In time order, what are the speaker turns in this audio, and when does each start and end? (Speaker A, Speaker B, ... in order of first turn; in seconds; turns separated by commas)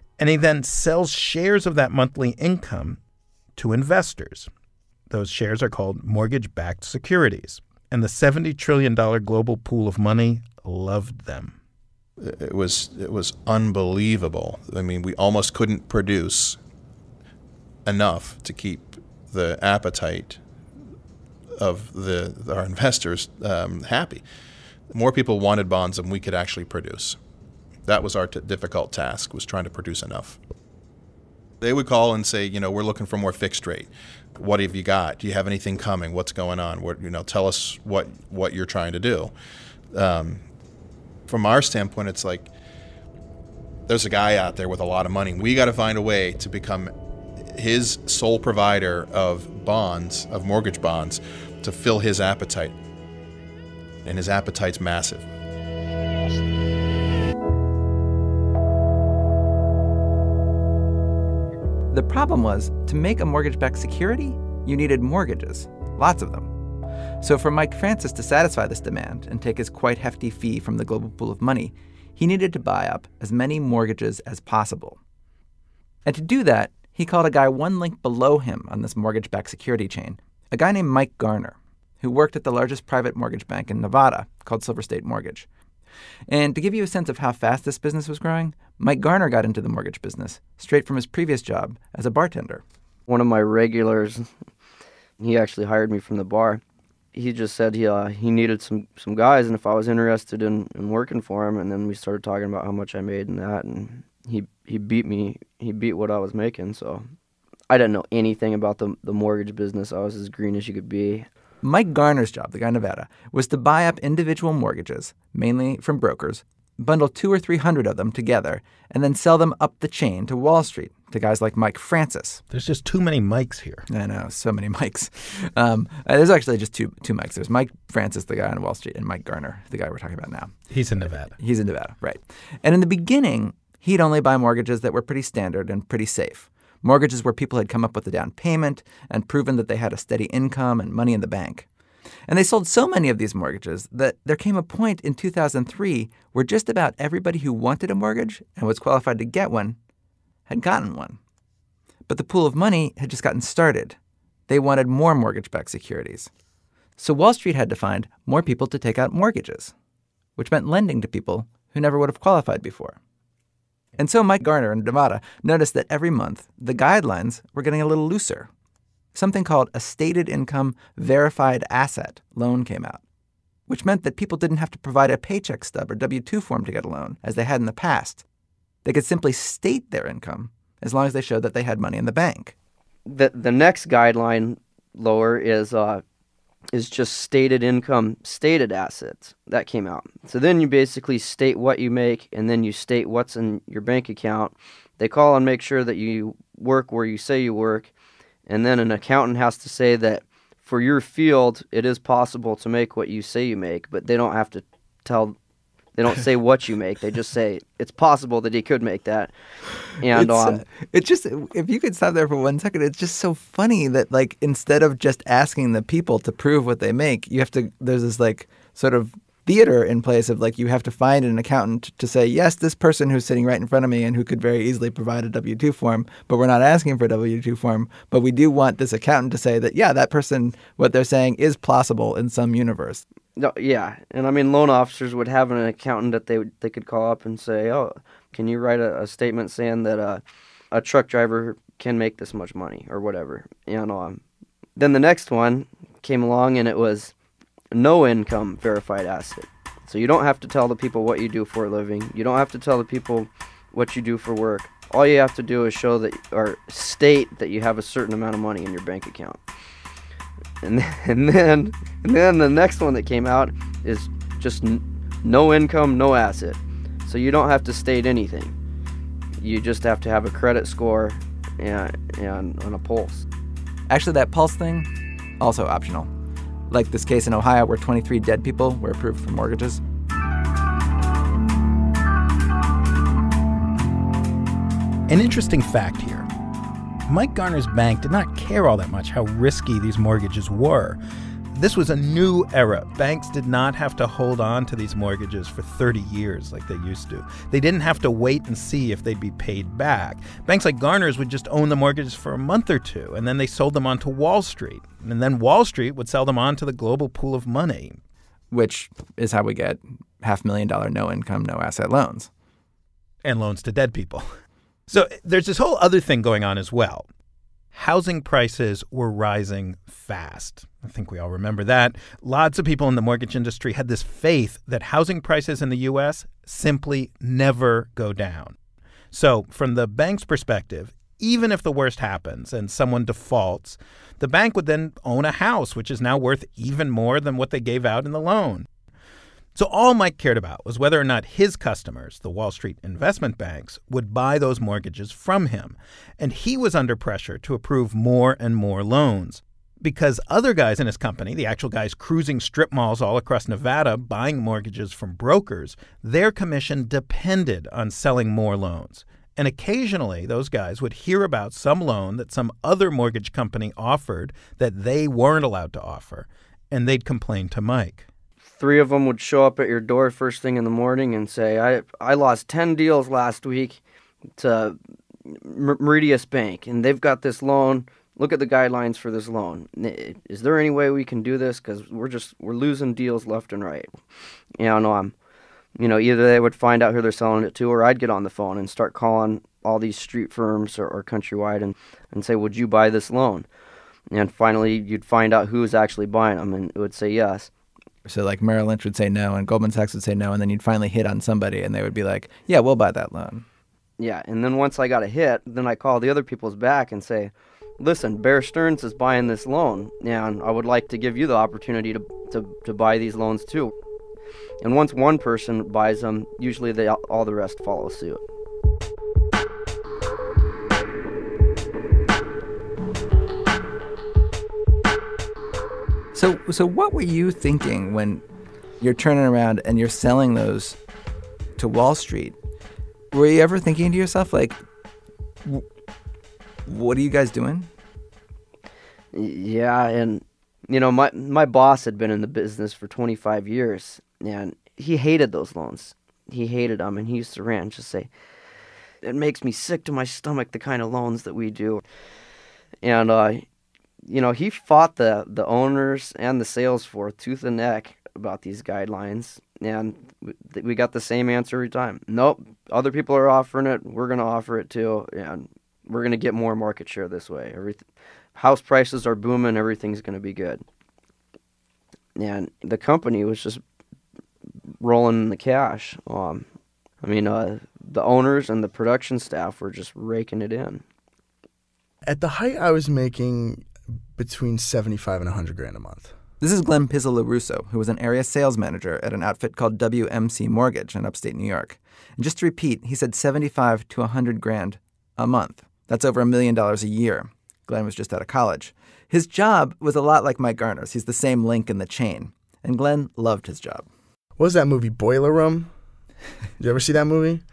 Speaker A: 0.2-3.0, Speaker A: 3.6-4.5, Speaker A: 5.1-11.6, Speaker B: 12.2-16.6, Speaker B: 17.9-20.4, Speaker B: 21.6-24.2, Speaker B: 24.9-27.2, Speaker B: 27.9-30.4, Speaker B: 31.6-39.3, Speaker B: 39.9-40.4, Speaker B: 41.3-42.5, Speaker B: 43.9-46.9, Speaker B: 47.5-52.8, Speaker B: 54.0-55.3, Speaker C: 61.9-66.5, Speaker C: 67.2-75.0, Speaker C: 76.0-85.5, Speaker C: 86.3-92.6, Speaker D: 93.1-94.3, Speaker D: 95.2-96.6, Speaker D: 97.1-107.1, Speaker D: 107.7-111.3, Speaker C: 111.6-122.4, Speaker A: 122.5-123.9, Speaker C: 123.9-130.6, Speaker A: 130.7-131.4, Speaker C: 131.4-141.7, Speaker C: 142.3-149.8, Speaker C: 150.5-151.2, Speaker C: 152.1-154.0, Speaker C: 154.5-156.3, Speaker C: 157.0-159.7, Speaker C: 160.4-163.0, Speaker C: 164.0-168.5, Speaker C: 169.1-173.0, Speaker C: 173.7-178.2, Speaker C: 178.8-182.6, Speaker D: 183.1-186.0, Speaker D: 186.7-197.9, Speaker D: 198.5-205.4, Speaker D: 206.0-209.3, Speaker D: 209.9-210.7, Speaker C: 210.1-233.1, Speaker D: 233.4-244.2, Speaker D: 244.8-247.1, Speaker D: 247.7-259.4, Speaker D: 260.6-268.6, Speaker D: 269.4-273.2, Speaker C: 273.9-276.1, Speaker C: 276.7-279.8, Speaker A: 285.1-286.3, Speaker A: 287.1-291.0, Speaker A: 291.5-308.0, Speaker C: 308.5-312.3, Speaker A: 313.2-314.3, Speaker A: 314.9-317.1, Speaker A: 317.7-328.6, Speaker A: 329.1-338.7, Speaker A: 339.6-368.1, Speaker D: 368.6-373.8, Speaker D: 374.4-384.0, Speaker D: 384.6-385.1, Speaker D: 385.8-393.5, Speaker D: 394.1-397.5, Speaker C: 398.1-403.4, Speaker D: 404.0-413.7, Speaker D: 414.6-418.2, Speaker C: 426.1-428.2, Speaker C: 428.8-430.8, Speaker C: 431.6-432.4, Speaker C: 433.1-434.6, Speaker C: 436.7-437.7, Speaker D: 439.1-448.1, Speaker D: 449.0-451.8, Speaker D: 452.8-453.4, Speaker D: 454.0-467.8, Speaker D: 468.4-470.6, Speaker D: 472.2-473.6, Speaker D: 474.8-476.5, Speaker D: 477.0-480.8, Speaker E: 482.1-486.1, Speaker C: 486.4-503.9, Speaker E: 504.4-505.7, Speaker E: 506.6-507.4